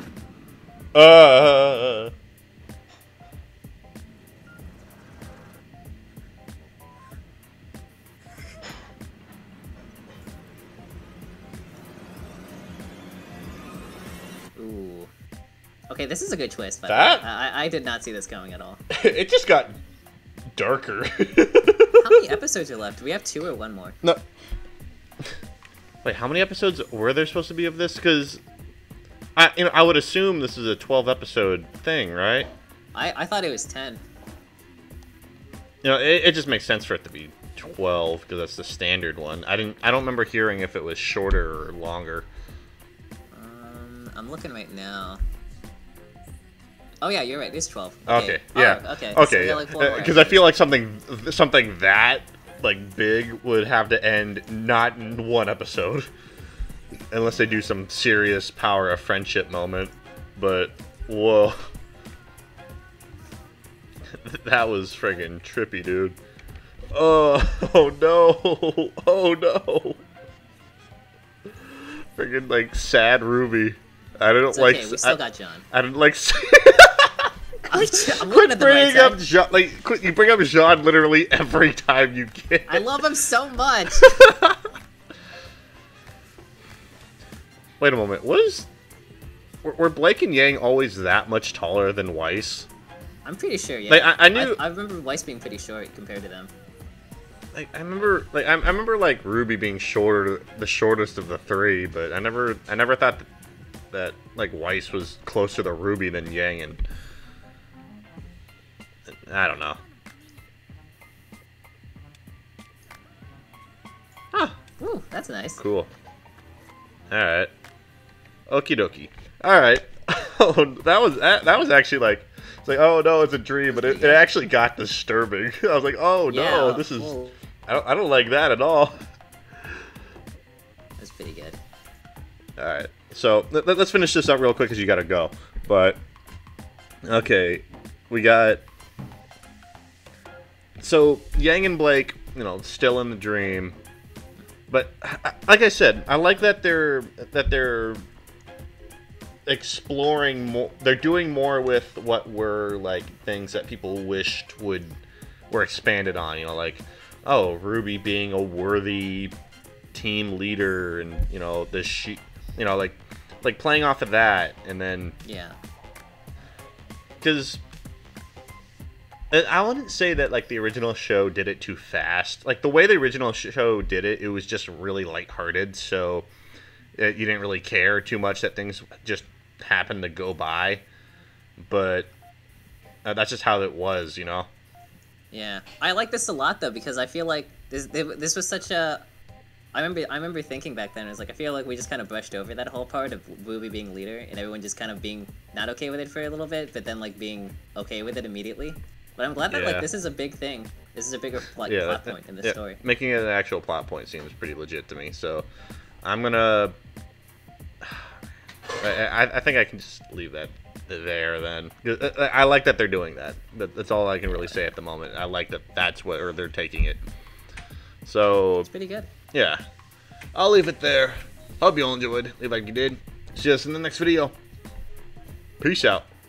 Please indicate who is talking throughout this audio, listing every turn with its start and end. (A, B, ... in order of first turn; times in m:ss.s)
0:00.9-0:02.1 A
0:14.6-0:15.1 B
0:15.9-0:18.8 B
0:16.9-0:17.2 A
0:18.9-0:19.8 A
0:20.5-0:22.2 A
0:22.0-0:24.0 B
0:26.0-0:28.4 A
0:29.4-0:32.5 A
0:32.9-0:34.0 B
0:35.8-0:42.3 A
0:43.3-0:45.2 B
0:47.0-0:50.4 B
0:48.1-0:56.1 A
0:57.1-1:01.7 A
1:04.1-1:06.2 A
1:06.9-1:10.0 A
1:11.8-1:15.2 A
1:14.5-1:15.6 B
1:15.7-1:22.9 A
1:17.7-1:19.4 B
1:22.7-1:24.3 B
1:24.0-1:24.7 A
1:27.8-1:28.7 A
1:29.6-1:32.7 A
1:33.2-1:36.5 B
1:33.9-1:34.6 A
1:37.5-1:43.3 A
1:43.9-1:46.8 A
1:49.1-1:49.8 A
1:54.3-1:54.6 A
1:54.8-1:55.6 B
1:55.6-1:55.9 A
1:57.1-1:57.5 A
1:58.5-2:09.0 A
2:03.8-2:04.2 B
2:06.3-2:07.3 B
2:11.0-2:11.6 B
2:12.6-2:16.0 A
2:17.0-2:18.6 A
2:20.8-2:23.8 A
2:24.7-2:28.0 A
2:29.5-2:35.0 A
2:35.5-2:39.3 A
2:39.9-2:45.2 A
2:45.2-2:45.6 B
2:47.2-2:47.6 A
2:49.3-2:56.3 A
2:57.0-3:00.8 A
3:01.6-3:02.1 A
3:03.0-3:04.5 A
3:05.3-3:09.0 B
3:09.7-3:22.8 B
3:19.5-3:19.9 A
3:21.7-3:25.5 A
3:26.0-3:26.8 A
3:27.8-3:28.1 A
3:28.8-3:37.0 A
3:38.0-3:38.7 A
3:38.7-3:39.1 B
3:39.3-3:39.6 A
3:40.3-3:44.4 A
3:45.6-3:46.1 A